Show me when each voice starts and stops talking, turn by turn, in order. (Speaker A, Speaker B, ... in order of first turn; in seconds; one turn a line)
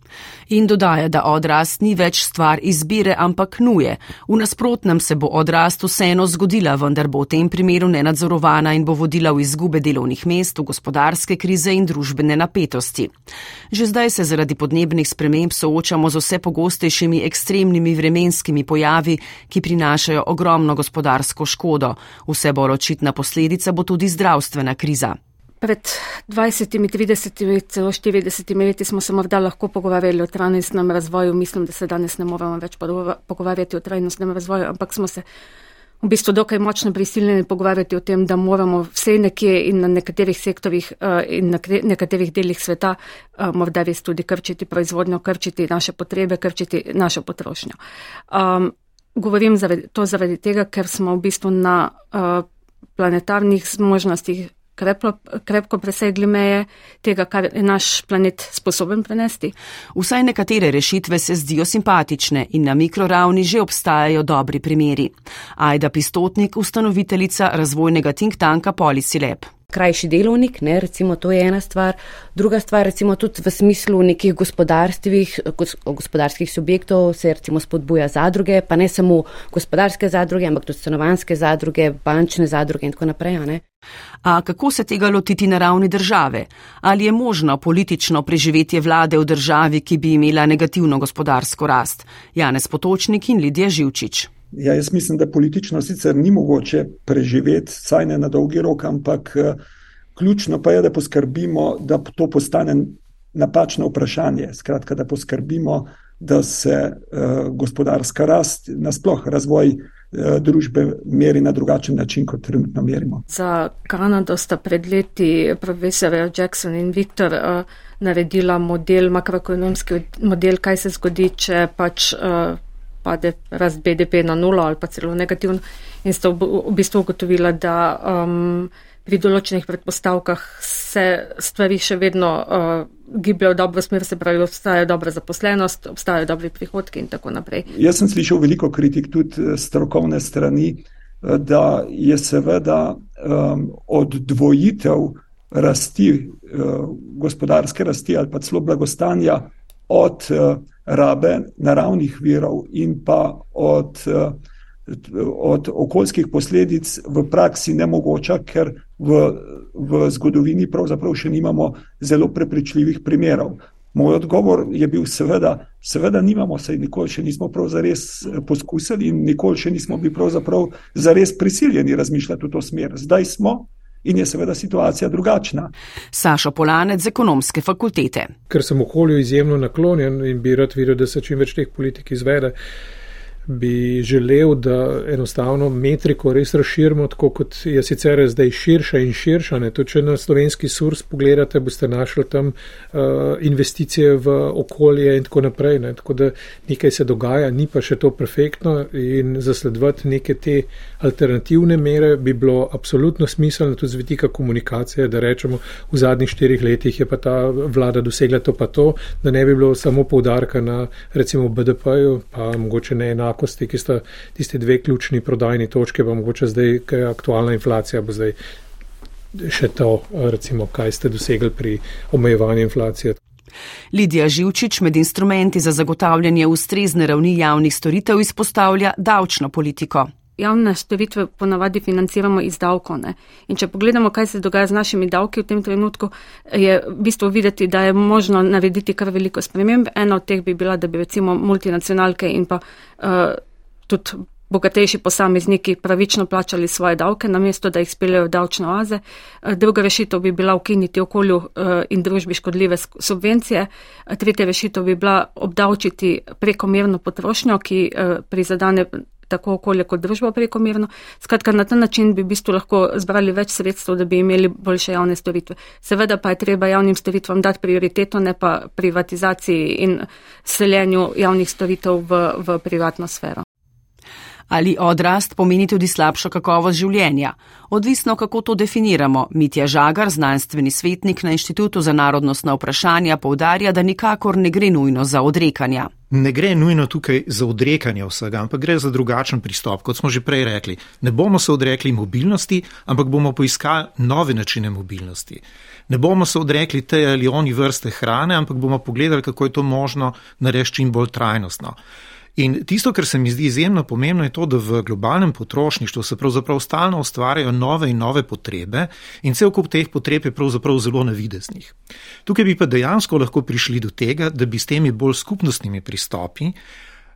Speaker A: 0.5-13.1
Speaker A: 13.7-25.1
Speaker B: 25.6-35.2
Speaker B: 36.0-47.8
Speaker B: 48.3-52.4
Speaker B: 53.0-59.5
Speaker A: 59.9-69.5
Speaker C: 69.7-83.6
Speaker A: 84.2-94.3
Speaker D: 94.5-99.6
Speaker D: 100.2-113.2
Speaker B: 113.3-137.7
Speaker D: 137.7-175.7
Speaker A: 176.1-178.3
Speaker E: 178.5-182.5
Speaker E: 183.5-218.3
Speaker E: 219.3-223.2
Speaker A: 223.9-230.1
Speaker B: 230.4-243.4
Speaker B: 243.9-273.4
Speaker A: 274.5-285.9
Speaker F: 286.1-301.8
Speaker F: 302.4-311.7
Speaker F: 312.2-316.6